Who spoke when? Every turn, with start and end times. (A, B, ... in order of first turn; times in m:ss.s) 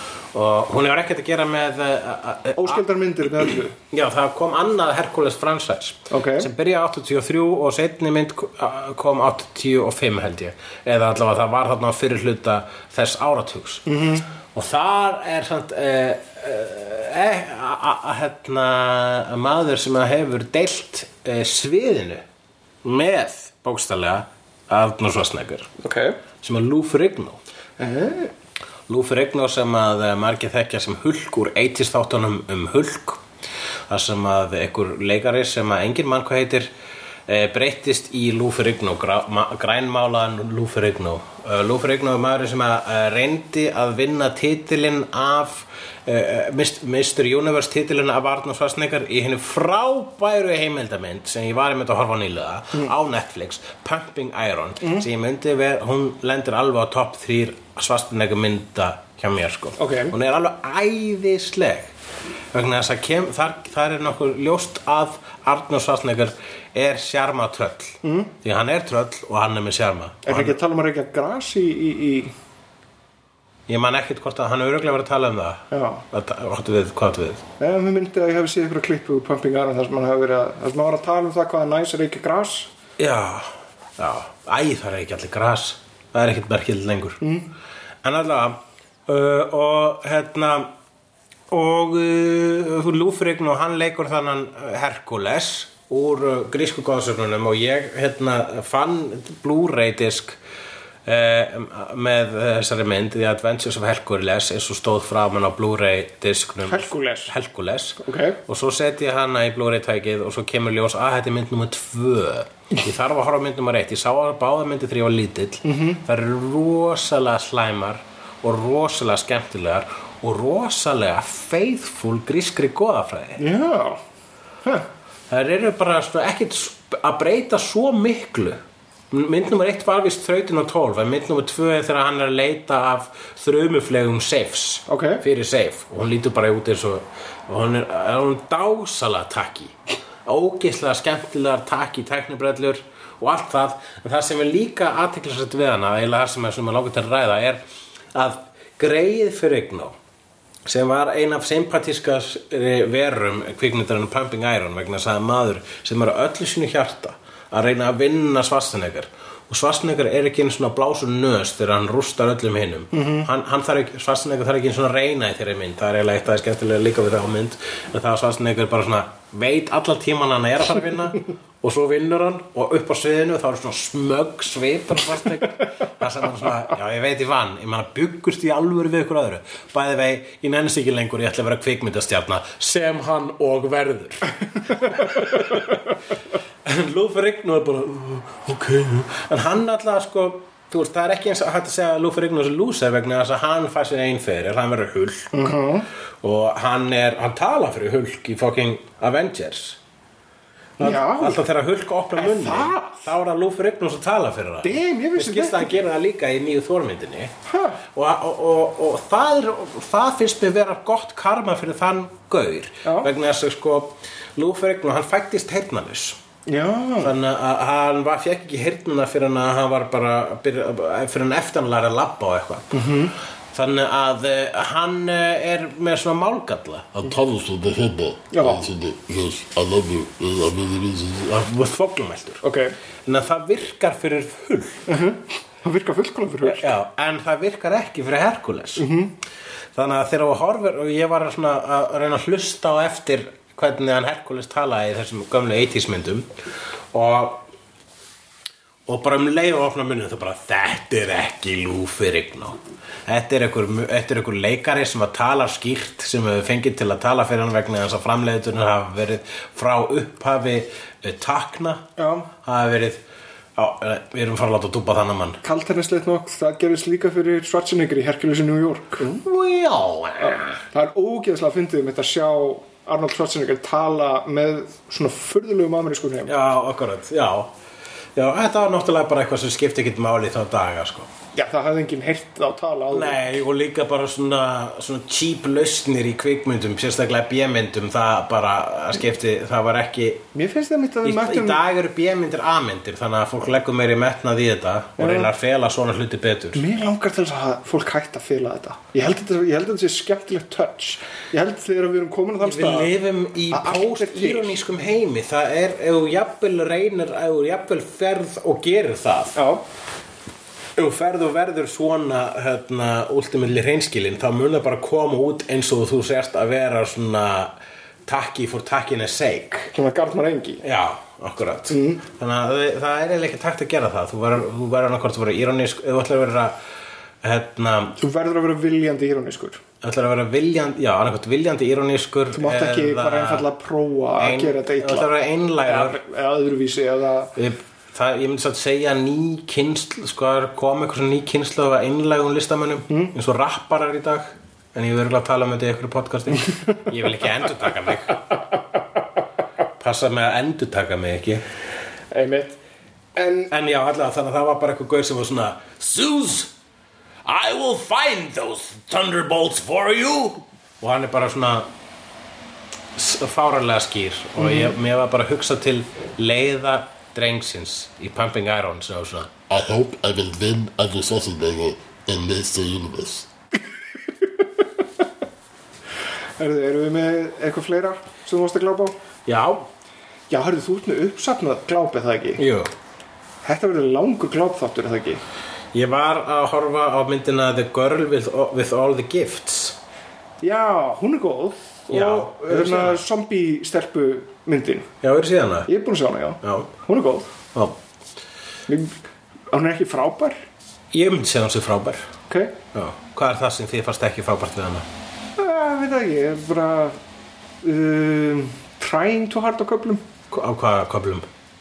0:00.3-0:02.8 A
0:02.6-0:03.7 B
0:03.4-0:13.9 A
0:06.1-0:06.5 B
0:13.8-0:14.3 B
0:14.5-0:22.2 A
0:22.8-0:25.7 A
0:25.8-0:26.2 B
0:26.4-0:27.4 A
0:27.8-0:28.3 B
0:28.9-0:33.2 A
0:33.9-0:36.7 A
0:37.3-1:01.9 A
0:54.8-0:55.0 B
0:59.8-1:00.1 B
1:02.5-1:10.6 A
1:08.0-1:08.3 B
1:10.2-1:12.3 B
1:13.7-1:17.4 A
1:15.7-1:16.0 B
1:17.6-1:22.7 B
1:23.0-1:27.2 A
1:27.2-1:27.5 B
1:28.0-1:30.7 A
1:31.5-1:40.4 A
1:41.0-2:03.4 A
1:46.6-1:47.3 B
1:48.0-1:48.4 B
1:55.6-1:56.0 B
2:03.4-2:04.0 B
2:05.3-2:08.6 A
2:09.1-2:27.6 A
2:14.9-2:15.2 B
2:28.1-2:29.9 A
2:30.6-3:04.3 A
2:42.9-2:43.3 B
3:04.8-3:05.6 A
3:06.6-3:15.6 A
3:15.3-3:15.9 B
3:16.2-3:19.8 A
3:20.8-3:21.4 B
3:20.8-3:27.3 A
3:22.2-3:23.1 B
3:24.6-3:25.8 B
3:27.5-3:27.8 B
3:27.9-3:36.2 A
3:32.8-3:33.1 B
3:36.4-3:37.1 B
3:37.0-3:42.9 A
3:42.7-3:43.1 B
3:43.5-3:47.2 A
3:47.1-3:51.2 C
3:48.3-3:48.6 B
3:51.2-3:52.4 A
3:52.4-3:52.7 B
3:53.1-3:54.8 A
3:54.9-3:56.7 B
3:56.4-3:58.9 A
3:58.8-3:59.1 B
3:59.8-4:06.3 A
4:06.9-4:07.4 A
4:08.9-4:21.9 A
4:22.0-4:22.3 B
4:22.4-4:23.0 A
4:23.6-4:25.4 A
4:25.4-4:29.2 B
4:29.0-4:30.6 A
4:30.2-4:36.4 B
4:36.2-4:37.5 A
4:38.1-4:41.1 A
4:41.3-4:43.2 B
4:42.9-4:50.2 A
4:50.4-4:51.6 B
4:51.0-4:56.6 A
4:55.0-4:55.3 B
4:56.5-5:02.9 B
5:02.4-5:09.3 A
5:03.5-5:04.6 B
5:09.4-5:09.6 B
5:10.8-5:17.5 A
5:18.1-5:19.7 A
5:19.7-5:20.6 B
5:20.6-5:26.5 A
5:21.7-5:22.0 B
5:27.2-5:28.0 A
5:28.0-5:29.6 B
5:29.8-5:33.5 A
5:32.3-5:35.1 B
5:34.2-5:36.0 A
5:35.6-5:37.3 B
5:37.4-5:48.2 A
5:42.9-5:43.1 B
5:49.8-5:51.4 A
5:52.1-5:52.6 B
5:53.2-5:53.5 B
5:53.5-5:56.5 A
5:57.2-6:01.7 A
6:02.9-6:09.4 A
6:04.4-6:04.7 B
6:09.5-6:13.2 C
6:16.4-6:19.0 B
6:19.2-6:19.7 A
6:20.3-6:22.4 B
6:22.4-6:22.7 A
6:23.4-6:25.2 B
6:25.7-6:29.8 A
6:30.4-6:34.9 B
6:31.9-6:33.0 A
6:35.0-6:35.7 A
6:35.6-6:37.3 B
6:36.4-6:36.7 A
6:38.7-6:39.0 B
6:39.5-6:40.4 B
6:40.9-6:42.1 A
6:42.3-6:42.5 B
6:42.7-6:44.9 A
6:45.4-6:47.0 B
6:47.6-6:50.0 B
6:50.3-6:51.2 A